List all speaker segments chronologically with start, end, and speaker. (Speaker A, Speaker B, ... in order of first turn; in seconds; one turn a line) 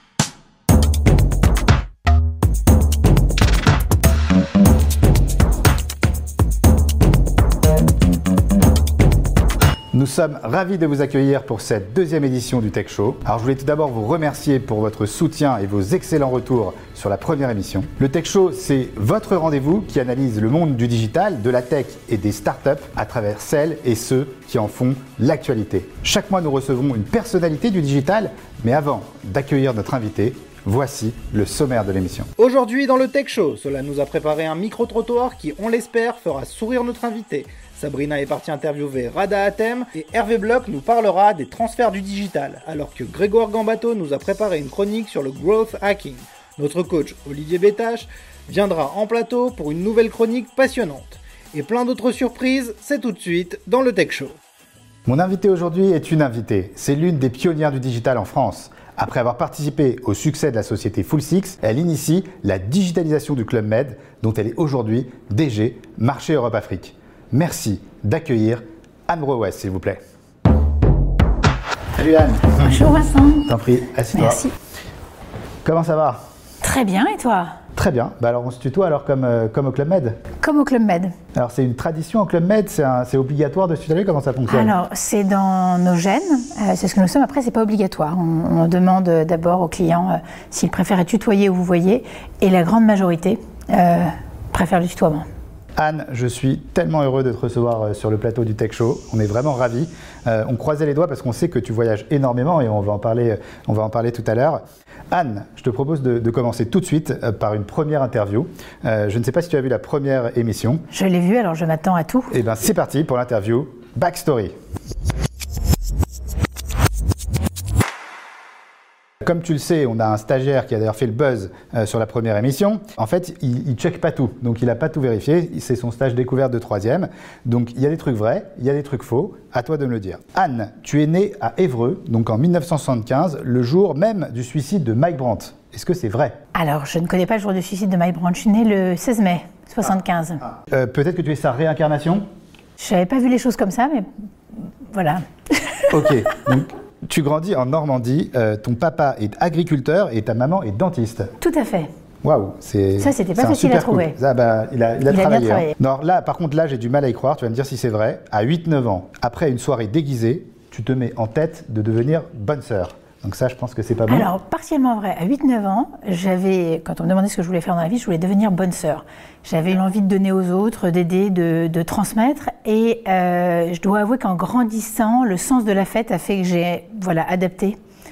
Speaker A: 9.9-32.3
Speaker B: 32.4-54.4
Speaker A: 55.1-70.0
Speaker A: 72.0-72.8
Speaker C: 72.6-73.5
Speaker A: 73.5-74.5
Speaker C: 74.2-74.5
Speaker A: 75.6-76.2
Speaker C: 76.6-77.6
Speaker A: 77.8-80.2
Speaker C: 80.4-81.2
Speaker A: 81.3-84.7
Speaker C: 84.5-95.3
Speaker A: 95.8-110.8
Speaker C: 110.9-112.3
Speaker A: 112.3-114.5
Speaker A: 119.2-136.4
Speaker C: 136.5-140.4
Speaker A: 140.5-142.2
Speaker C: 142.8-144.1
Speaker C: 144.9-145.9
Speaker A: 145.9-151.3
Speaker C: 151.4-151.9
Speaker A: 152.2-164.3
Speaker C: 153.0-154.2
Speaker C: 155.1-155.7
Speaker C: 164.1-177.8